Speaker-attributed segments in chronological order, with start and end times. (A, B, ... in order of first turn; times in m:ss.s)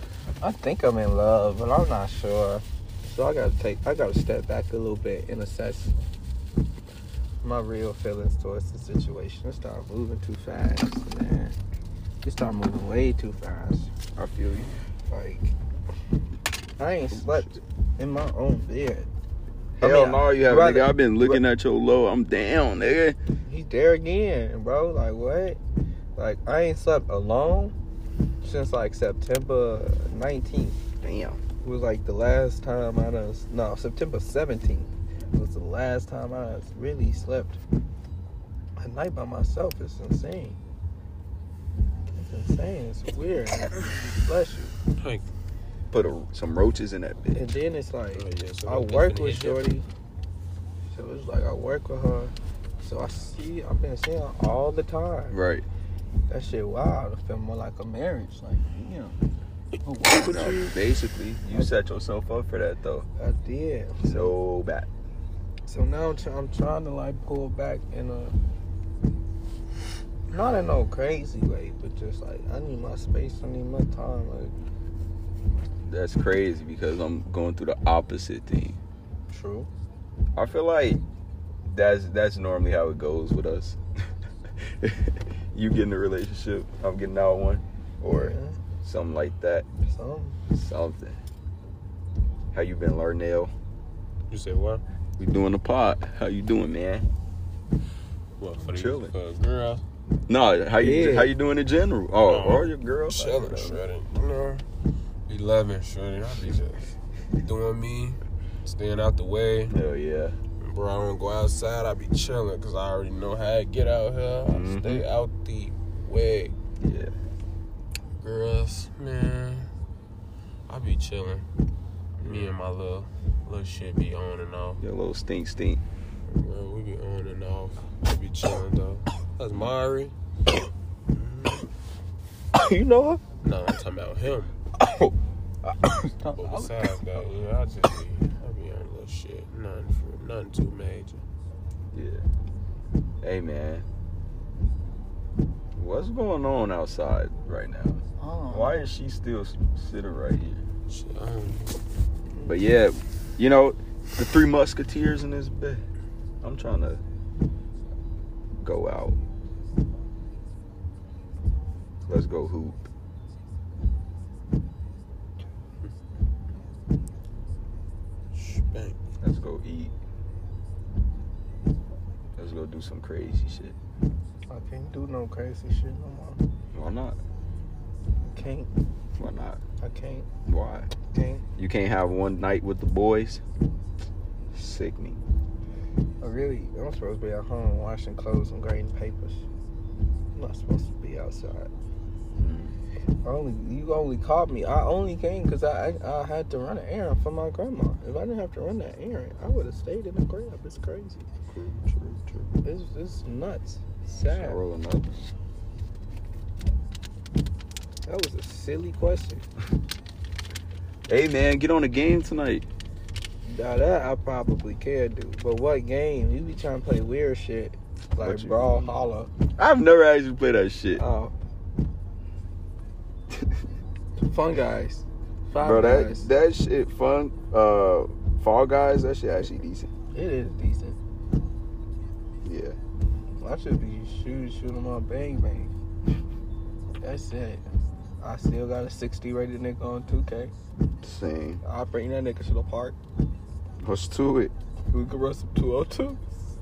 0:00.4-0:06.0 A
0:07.4-0:11.6 A
0:12.2-0:13.9 A
0:14.2-0:14.7 B
0:15.1-0:15.6 A
0:16.8-0:19.1 A
0:17.1-0:17.6 B
0:19.8-0:23.2 B
0:19.8-0:21.4 A
0:23.5-0:25.6 A
0:26.2-0:27.8 A
0:28.4-0:30.8 A
0:31.0-0:31.4 B
0:31.6-0:37.6 A
0:38.8-0:40.6 A
0:42.2-0:44.8 A
0:45.0-0:45.3 C
0:45.9-0:47.5 B
0:47.3-0:49.8 A
0:48.2-0:49.7 C
0:50.9-0:55.4 A
0:55.3-0:55.7 B
0:56.3-0:59.2 A
0:59.8-1:00.6 A
1:00.1-1:03.1 B
1:03.2-1:04.4 A
1:04.0-1:04.9 B
1:05.7-1:08.4 A
1:10.3-1:14.5 A
1:15.9-1:18.8 B
1:19.3-1:19.7 A
1:20.4-1:21.0 B
1:21.6-1:29.7 B
1:28.1-1:28.6 A
1:29.8-1:30.4 A
1:30.5-1:31.2 B
1:32.5-1:33.5 B
1:34.3-1:34.8 C
1:35.2-1:37.1 B
1:38.4-1:39.8 C
1:38.6-1:39.1 B
1:40.3-1:43.8 B
1:40.8-1:41.3 A
1:42.3-1:44.6 C
1:45.3-1:49.7 C
1:49.7-1:50.4 B
1:50.6-1:56.6 C
1:54.4-1:55.0 B
1:56.8-1:57.1 B
1:58.2-1:59.7 C
2:00.7-2:01.5 C
2:02.2-2:04.8 C
2:04.8-2:05.8 B
2:06.3-2:10.1 C
2:11.1-2:11.7 C
2:12.5-2:13.2 A
2:13.4-2:14.5 C
2:14.8-2:17.3 A
2:16.4-2:21.2 C
2:21.9-2:22.2 B
2:23.2-2:23.9 B
2:25.8-2:30.7 B
2:28.2-2:28.8 A
2:30.9-2:31.8 C
2:32.3-2:32.6 A
2:32.4-2:35.8 B
2:36.4-2:37.0 B
2:38.6-2:39.2 B
2:42.1-2:42.9 B
2:48.3-2:49.0 C
2:49.2-2:49.9 B
2:52.4-2:53.8 B
2:54.5-2:56.4 A
2:56.7-2:57.2 B
2:58.2-2:58.7 A
2:59.2-2:59.6 B
2:59.8-3:00.3 A
3:00.5-3:00.9 B
3:01.0-3:01.4 A
3:01.6-3:03.4 B
3:04.5-3:05.2 B
3:06.2-3:09.4 A
3:10.4-3:11.7 A
3:12.4-3:12.8 B
3:13.2-3:21.2 A
3:21.5-3:22.5 B
3:22.6-3:24.6 A
3:24.3-3:25.3 B
3:28.1-3:29.4 A
3:31.1-3:32.7 B
3:33.4-3:39.3 A
3:38.2-3:38.9 B
3:39.6-3:41.0 B
3:41.0-3:41.3 A
3:44.3-3:46.3 A
3:45.6-3:49.9 B
3:50.1-3:51.0 A
3:52.4-3:52.8 B
3:53.4-3:55.7 A
3:57.0-3:57.6 A
3:58.2-4:00.5 A
4:01.0-4:01.6 B
4:01.6-4:03.0 A
4:03.8-4:04.5 B
4:04.9-4:06.2 A